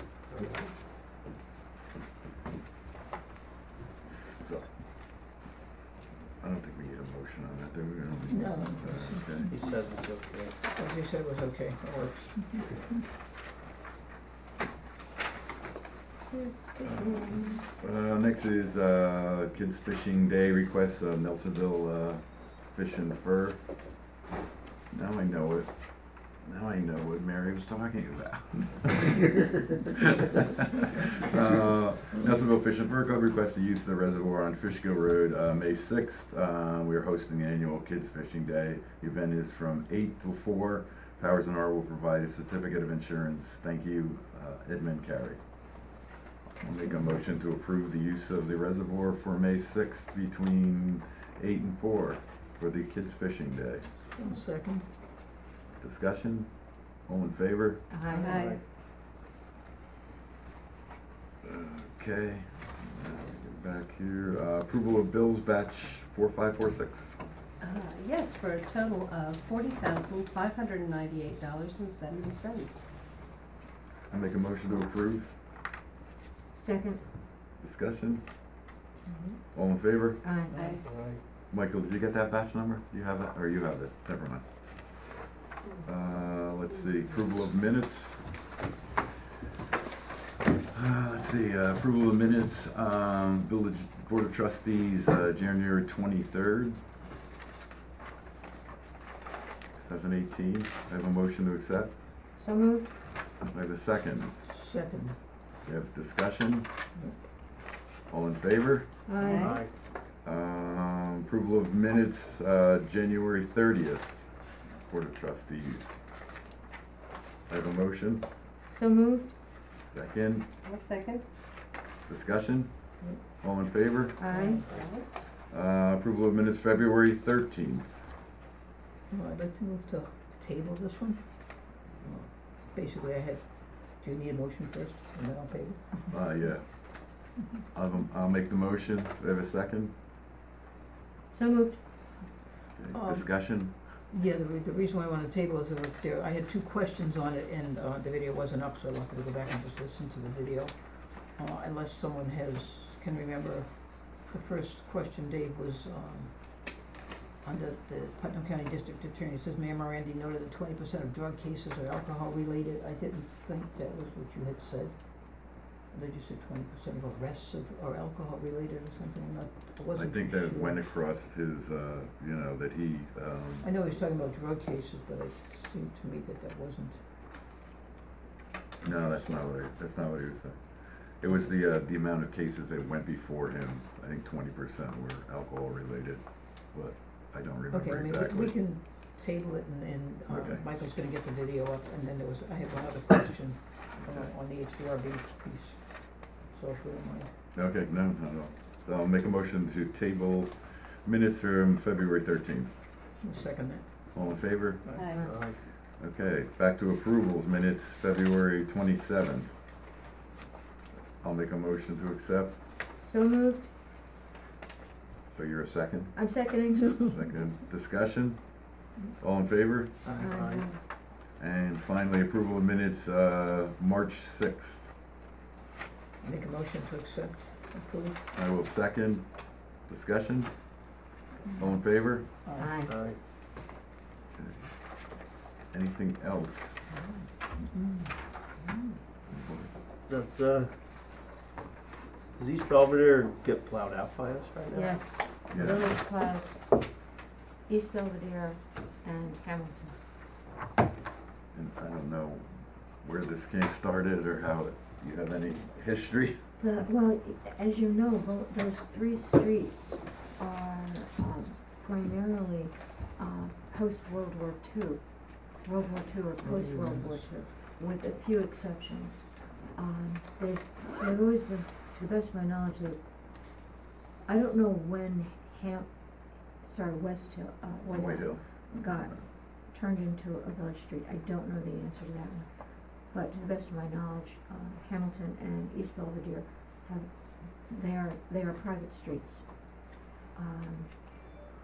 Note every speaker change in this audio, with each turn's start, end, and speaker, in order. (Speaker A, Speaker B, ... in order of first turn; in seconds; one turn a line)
Speaker A: 4.0-4.7
Speaker A: 6.4-9.5
Speaker B: 8.3-9.6
Speaker C: 9.5-10.6
Speaker B: 10.7-12.9
Speaker D: 16.3-17.6
Speaker A: 16.9-23.6
Speaker A: 24.9-45.4
Speaker A: 46.6-53.9
Speaker B: 46.6-47.2
Speaker B: 54.1-54.9
Speaker A: 55.8-57.9
Speaker D: 57.9-58.5
Speaker E: 58.1-58.6
Speaker A: 61.4-67.1
Speaker E: 67.6-72.9
Speaker A: 74.1-75.3
Speaker D: 76.5-77.1
Speaker A: 77.6-78.2
Speaker A: 79.5-80.3
Speaker D: 80.2-80.8
Speaker E: 80.5-80.8
Speaker C: 80.5-81.2
Speaker A: 81.5-84.4
Speaker A: 85.8-88.2
Speaker A: 90.7-96.8
Speaker A: 99.8-101.9
Speaker D: 102.3-102.9
Speaker A: 103.4-104.3
Speaker B: 104.5-105.2
Speaker A: 105.6-106.7
Speaker A: 108.1-108.9
Speaker D: 109.1-109.6
Speaker E: 109.2-109.6
Speaker C: 109.3-109.7
Speaker A: 110.2-114.1
Speaker A: 114.8-115.9
Speaker A: 117.5-118.2
Speaker D: 118.7-119.3
Speaker A: 119.8-120.5
Speaker E: 120.6-121.2
Speaker A: 122.1-122.7
Speaker A: 123.4-124.2
Speaker D: 124.2-124.7
Speaker B: 124.3-124.8
Speaker E: 124.6-125.1
Speaker A: 125.5-128.0
Speaker B: 129.1-131.2
Speaker B: 132.0-136.1
Speaker A: 136.1-139.9
Speaker D: 141.3-141.8
Speaker A: 142.7-143.7
Speaker B: 142.9-150.8
Speaker B: 151.3-156.3
Speaker B: 157.4-170.9
Speaker A: 169.9-173.7
Speaker B: 173.6-177.0
Speaker B: 178.8-179.3
Speaker A: 178.8-188.6
Speaker B: 187.7-197.3
Speaker A: 190.3-190.8
Speaker A: 194.0-194.3
Speaker A: 197.5-202.7
Speaker B: 203.2-204.1
Speaker A: 204.1-205.1
Speaker E: 204.9-205.3
Speaker C: 205.2-205.6
Speaker A: 206.0-209.5
Speaker A: 211.2-212.5
Speaker D: 213.0-213.7
Speaker A: 215.3-219.9
Speaker D: 216.1-217.2
Speaker C: 220.0-220.7
Speaker D: 220.2-220.8
Speaker A: 221.4-224.9
Speaker B: 226.2-228.2
Speaker A: 228.3-230.6
Speaker A: 231.6-232.3
Speaker B: 232.4-232.8
Speaker D: 232.6-232.9
Speaker C: 232.8-233.2
Speaker A: 234.3-234.8
Speaker A: 235.7-236.8
Speaker B: 237.7-238.1
Speaker A: 239.3-239.7
Speaker C: 240.1-240.7
Speaker C: 242.4-244.9
Speaker D: 244.7-246.5
Speaker A: 245.5-245.9
Speaker D: 247.7-249.9
Speaker A: 251.5-252.5
Speaker A: 253.0-256.5
Speaker D: 256.6-273.0
Speaker B: 266.4-267.3
Speaker D: 274.2-291.2
Speaker A: 277.9-279.2